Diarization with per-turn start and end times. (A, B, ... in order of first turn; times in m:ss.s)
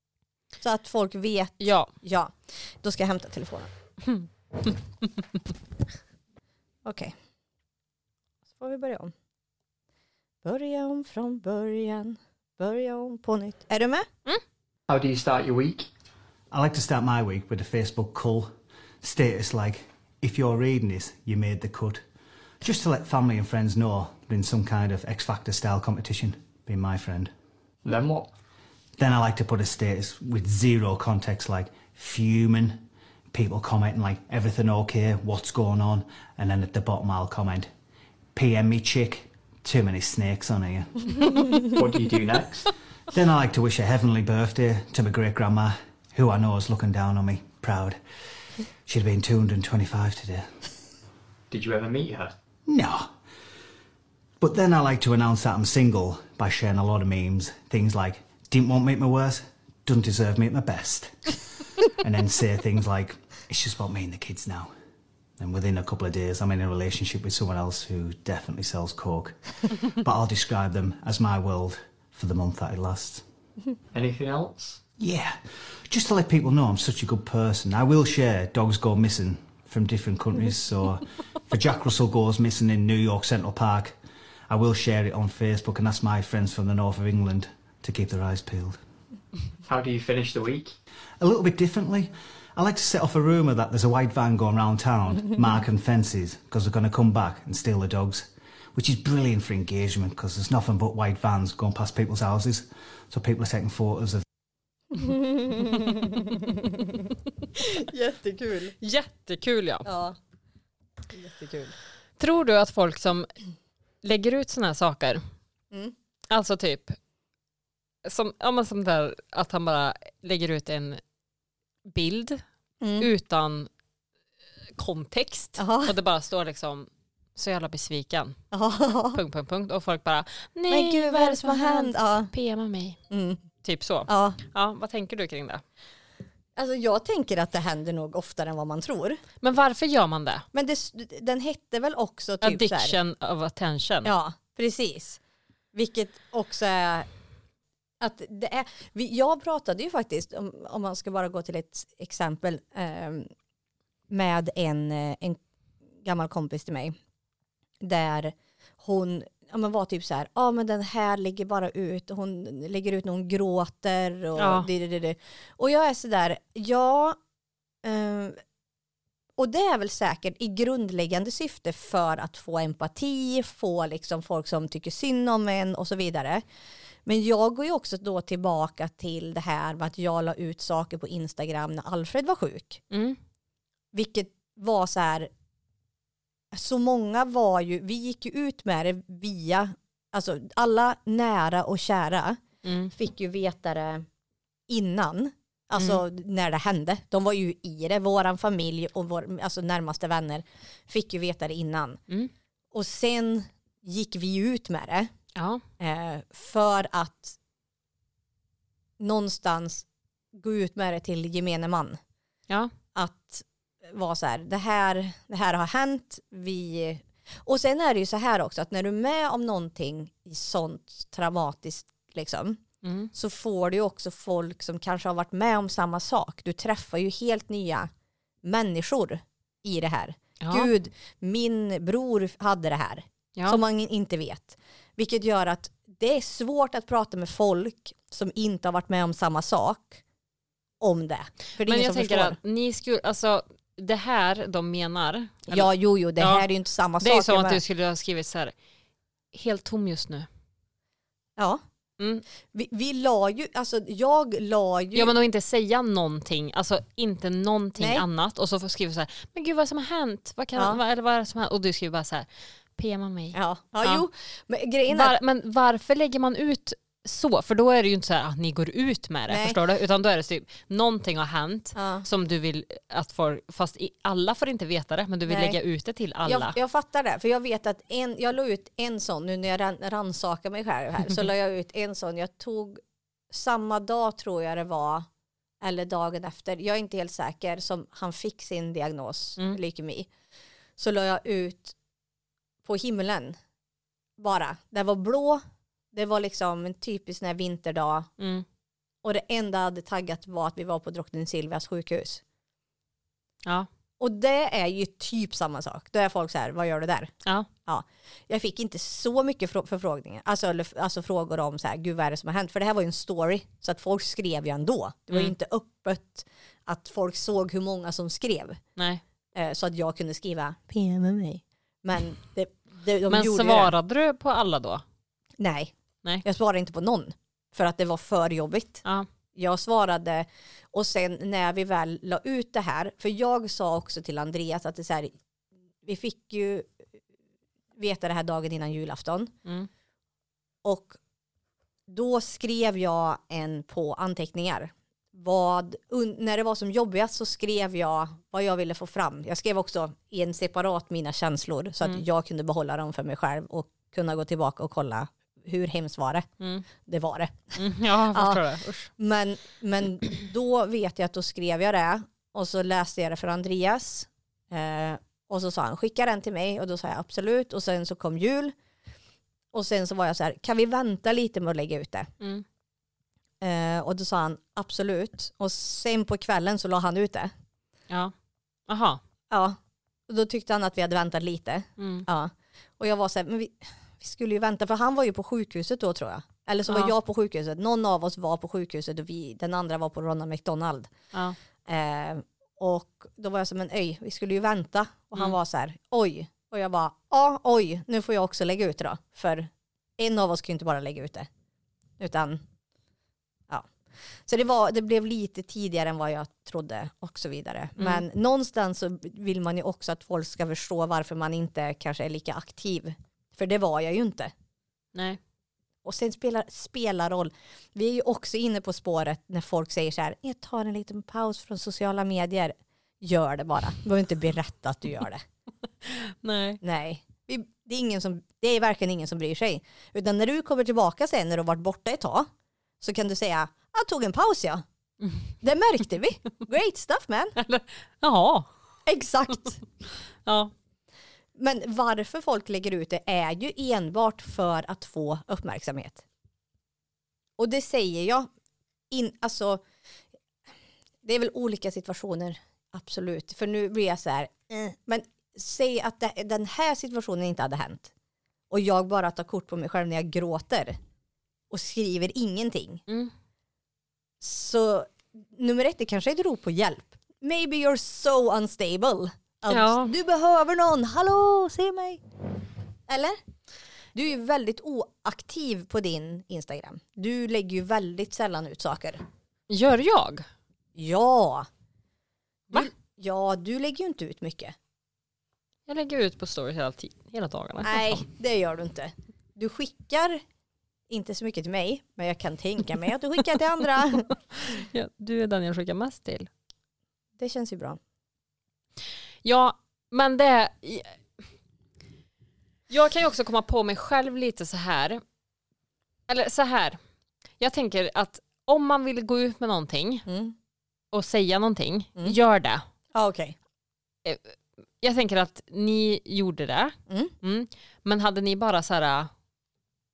0:00.6-0:03.7 A
0:01.6-0:01.9 B
0:06.8-0:07.1 A
0:08.6-0:09.1 A
0:10.4-0:14.1 A
0:14.9-0:15.9 C
0:16.5-0:18.5 D
0:19.0-0:22.0 D
0:22.6-0:27.3 D
0:27.8-0:28.3 C
0:29.0-0:37.7 D
0:38.4-0:41.7 D
0:41.6-0:42.7 C
0:43.1-0:48.0 D
0:48.9-0:50.5 D
0:51.5-0:52.3 C
0:52.7-0:53.1 D
0:54.4-1:04.7 D
1:05.4-1:13.2 D
1:13.9-1:14.8 C
1:15.0-1:23.9 D
1:24.5-1:28.8 D
1:29.7-1:30.7 C
1:31.2-1:44.2 D
1:44.9-1:48.8 A
1:48.8-1:49.9 B
1:49.8-1:50.2 A
1:51.1-1:51.8 A
1:52.2-1:53.3 B
1:54.0-1:55.2 B
1:56.3-1:57.0 B
1:58.0-2:01.0 B
2:01.9-2:02.4 B
2:02.8-2:03.1 A
2:03.0-2:03.7 B
2:04.8-2:08.4 B
2:05.6-2:05.9 A
2:08.5-2:09.2 A
2:09.1-2:13.0 B
2:10.7-2:12.3 A
2:13.1-2:13.4 A
2:13.6-2:15.6 B
2:14.1-2:14.4 A
2:16.6-2:19.2 A
2:19.4-2:20.4 B
2:20.5-2:23.0 A
2:22.4-2:24.1 B
2:24.0-2:25.2 A
2:25.7-2:27.1 A
2:28.0-2:33.3 A
2:34.1-2:35.4 A
2:36.0-2:37.0 A
2:37.8-2:47.2 A
2:44.4-2:44.7 B
2:47.8-2:48.4 A
2:49.4-2:56.4 A
2:57.1-3:02.8 A
3:02.9-3:03.2 B
3:03.9-3:05.3 A
3:06.5-3:12.4 A
3:12.6-3:12.9 B
3:13.0-3:14.1 A
3:14.7-3:22.0 A
3:22.7-3:25.1 A
3:25.4-3:25.6 B
3:25.8-3:27.4 A
3:29.0-3:32.0 A
3:33.0-3:42.6 A
3:42.8-3:43.1 B
3:43.1-3:47.9 A
3:48.4-4:00.0 A
3:50.4-3:50.7 B
4:00.8-4:02.4 A
4:01.6-4:05.7 B
4:05.5-4:07.6 A
4:06.2-4:06.5 B
4:07.0-4:08.5 B
4:09.3-4:10.3 B
4:12.5-4:15.1 A
4:15.0-4:24.0 B
4:17.8-4:18.0 A
4:23.3-4:25.2 A
4:24.9-4:36.6 B
4:29.3-4:29.6 A
4:31.8-4:32.1 A
4:35.3-4:35.6 A
4:36.3-4:45.1 A
4:45.6-4:50.1 A
4:50.8-4:51.8 A
4:52.6-4:53.4 A
4:54.2-4:55.4 A
4:55.9-4:58.1 A
4:58.2-4:58.4 B
4:59.0-5:02.2 A
5:04.0-5:07.1 A
5:07.7-5:18.6 A
5:18.8-5:19.0 B
5:19.4-5:23.7 A
5:23.1-5:24.8 B
5:25.4-5:25.7 A
5:26.2-5:28.8 A
5:29.4-5:35.1 A
5:35.8-5:36.8 A
5:37.8-5:39.3 A
5:40.6-5:41.0 A
5:41.9-5:56.3 A
5:56.4-5:56.6 B
5:56.8-5:57.6 A
5:57.6-5:58.9 B
5:58.1-5:58.4 A
5:59.0-6:08.6 A
6:09.5-6:12.1 A
6:12.2-6:12.4 B
6:13.4-6:17.3 A
6:18.7-6:19.0 B
6:19.3-6:19.6 A
6:20.1-6:30.9 A
6:21.8-6:22.1 B
6:31.7-6:41.3 A
6:42.0-6:42.4 A
6:44.3-6:54.3 A
6:47.8-6:48.0 B
6:55.8-7:05.2 A
7:05.8-7:06.6 B
7:06.6-7:12.3 A
7:12.8-7:14.6 A
7:15.4-7:17.4 A
7:17.4-7:18.5 B
7:18.9-7:19.6 A
7:20.2-7:20.5 B
7:21.4-7:26.0 A
7:27.4-7:28.3 A
7:28.9-7:29.6 A
7:31.0-7:37.9 A
7:38.5-7:40.8 A
7:41.5-7:42.8 A
7:44.2-7:52.0 A
7:49.5-7:49.9 B
7:52.9-7:53.2 A
7:53.9-7:59.0 A
7:59.5-8:00.2 B
8:00.8-8:01.5 A
8:02.5-8:04.6 A
8:05.7-8:08.1 B
8:07.6-8:10.2 A
8:10.9-8:14.1 A
8:14.4-8:16.3 B
8:17.2-8:17.8 A
8:19.2-8:21.0 B
8:22.7-8:25.0 B
8:26.1-8:26.8 B
8:27.4-8:30.1 B
8:30.1-8:30.4 A
8:30.9-8:32.6 B
8:32.9-8:33.4 A
8:34.0-8:39.1 B